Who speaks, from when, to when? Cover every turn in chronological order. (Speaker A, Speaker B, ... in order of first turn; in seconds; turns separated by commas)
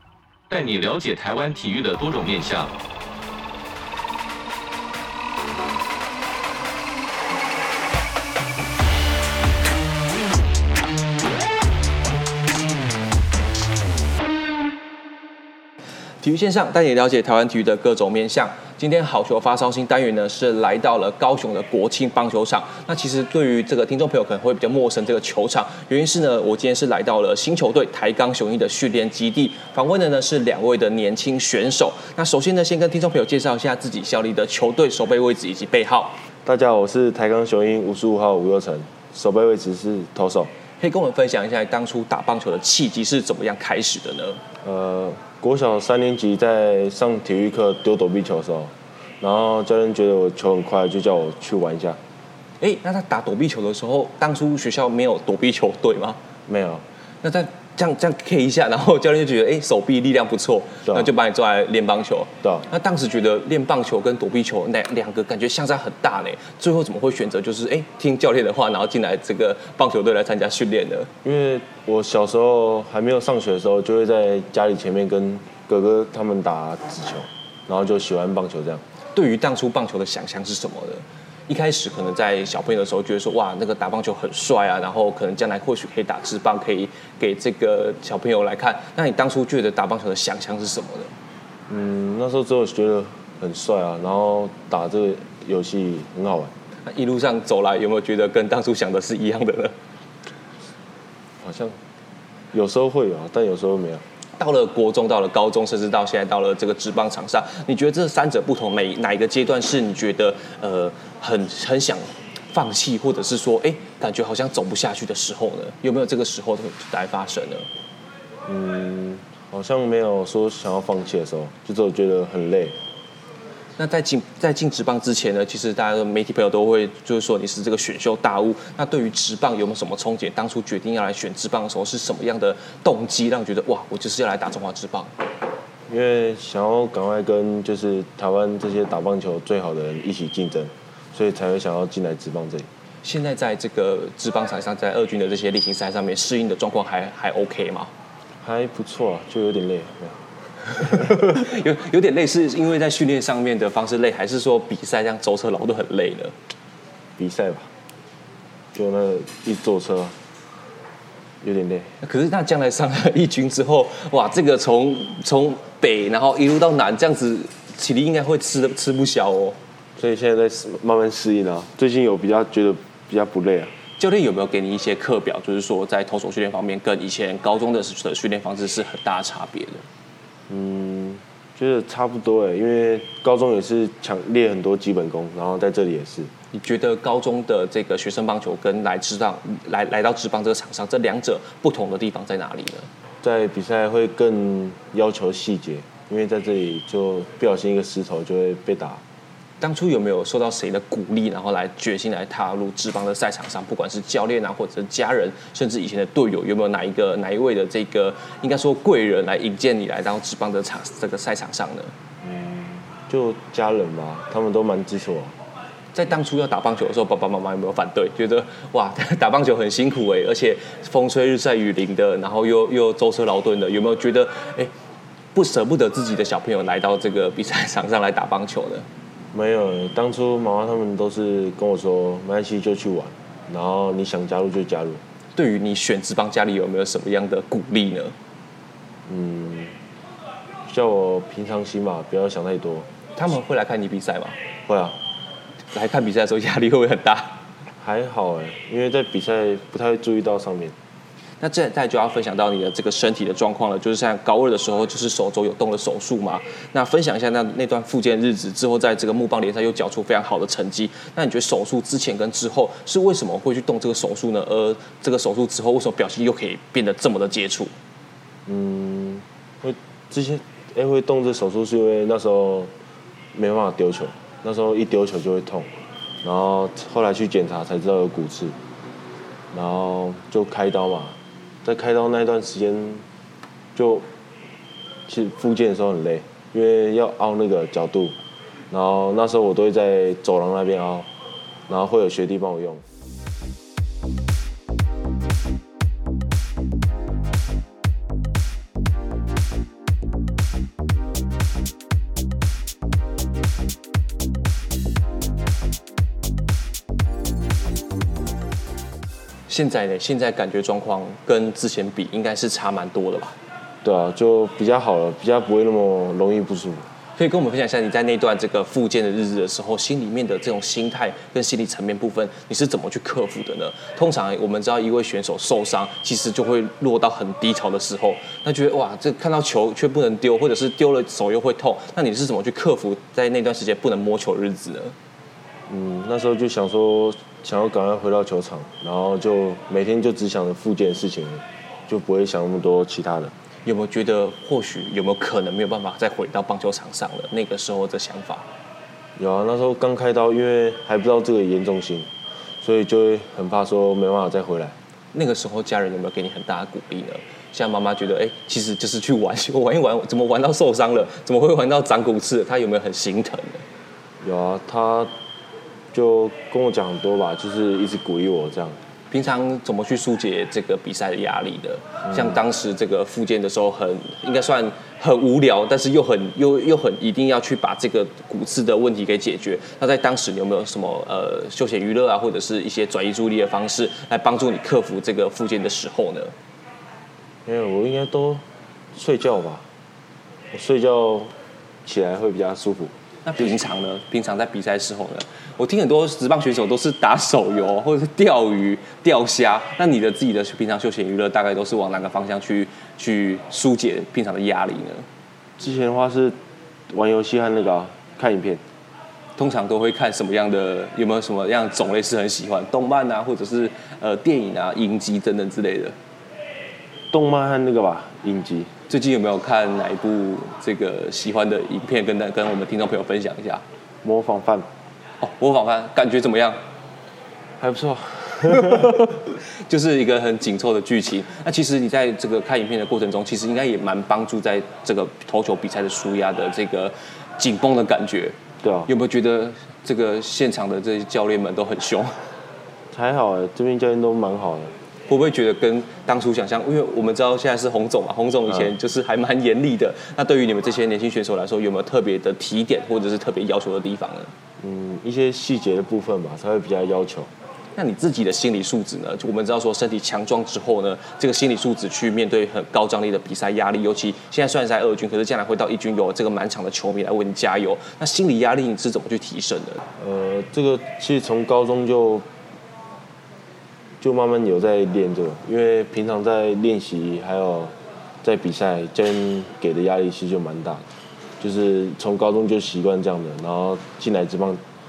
Speaker A: 0.5-2.7, Speaker B: 16.2-36.2, Speaker C: 36.4-40.5, Speaker B: 40.8-44.4, Speaker C: 44.6-52.0, Speaker B: 52.6-56.2, Speaker C: 56.5-56.8, Speaker B: 57.2-71.1, Speaker C: 60.8-61.1, Speaker C: 71.2-78.8, Speaker B: 79.1-91.1, Speaker C: 91.7-96.5, Speaker B: 96.8-99.7, Speaker C: 101.4-101.8, Speaker C: 102.5-104.0, Speaker B: 104.4-117.7, Speaker C: 118.5-122.8, Speaker B: 123.8-135.1, Speaker C: 135.9-142.7, Speaker B: 143.0-147.9, Speaker C: 148.4-151.2, Speaker B: 150.8-156.3, Speaker C: 157.2-157.7, Speaker C: 158.7-160.1, Speaker C: 161.4-161.9, Speaker B: 162.0-169.6, Speaker C: 170.0-173.7, Speaker B: 174.0-179.8, Speaker C: 180.5-186.3, Speaker B: 186.5-192.9, Speaker C: 193.2-199.0, Speaker B: 199.6-211.9, Speaker C: 212.2-215.3, Speaker B: 215.9-224.7, Speaker B: 225.3-228.8, Speaker C: 229.3-235.0, Speaker B: 235.3-238.1, Speaker C: 239.1-239.8, Speaker C: 240.7-242.9, Speaker B: 243.1-244.4, Speaker C: 244.7-245.0, Speaker B: 245.7-247.4, Speaker C: 247.8-250.7, Speaker B: 251.4-267.7, Speaker C: 268.4-272.7, Speaker C: 273.3-275.7, Speaker C: 276.2-278.6, Speaker C: 279.5-283.0, Speaker C: 283.7-284.1, Speaker C: 285.1-288.1, Speaker C: 288.7-291.1, Speaker C: 291.7-292.8, Speaker B: 309.5-313.4, Speaker C: 313.8-316.9, Speaker B: 317.1-334.9, Speaker C: 335.7-343.3, Speaker B: 343.6-348.4, Speaker C: 349.2-352.1, Speaker C: 352.6-354.8, Speaker B: 355.1-363.6, Speaker C: 364.2-365.1, Speaker C: 365.9-368.8, Speaker B: 369.1-386.3, Speaker C: 387.4-388.4, Speaker C: 388.9-389.6, Speaker C: 390.5-391.3, Speaker C: 391.8-392.9, Speaker B: 393.2-405.1, Speaker C: 405.6-406.4, Speaker C: 406.9-408.6, Speaker B: 409.4-415.9, Speaker C: 417.1-418.7, Speaker B: 418.9-423.6, Speaker C: 424.0-424.7, Speaker B: 425.2-426.6, Speaker C: 427.6-429.1, Speaker B: 428.6-438.4, Speaker C: 438.6-438.9, Speaker B: 438.9-442.1, Speaker C: 442.9-444.7, Speaker B: 445.1-454.3, Speaker C: 448.5-448.7, Speaker C: 454.6-457.3, Speaker B: 457.7-469.8, Speaker C: 470.0-472.2, Speaker C: 474.0-480.9, Speaker C: 481.4-484.6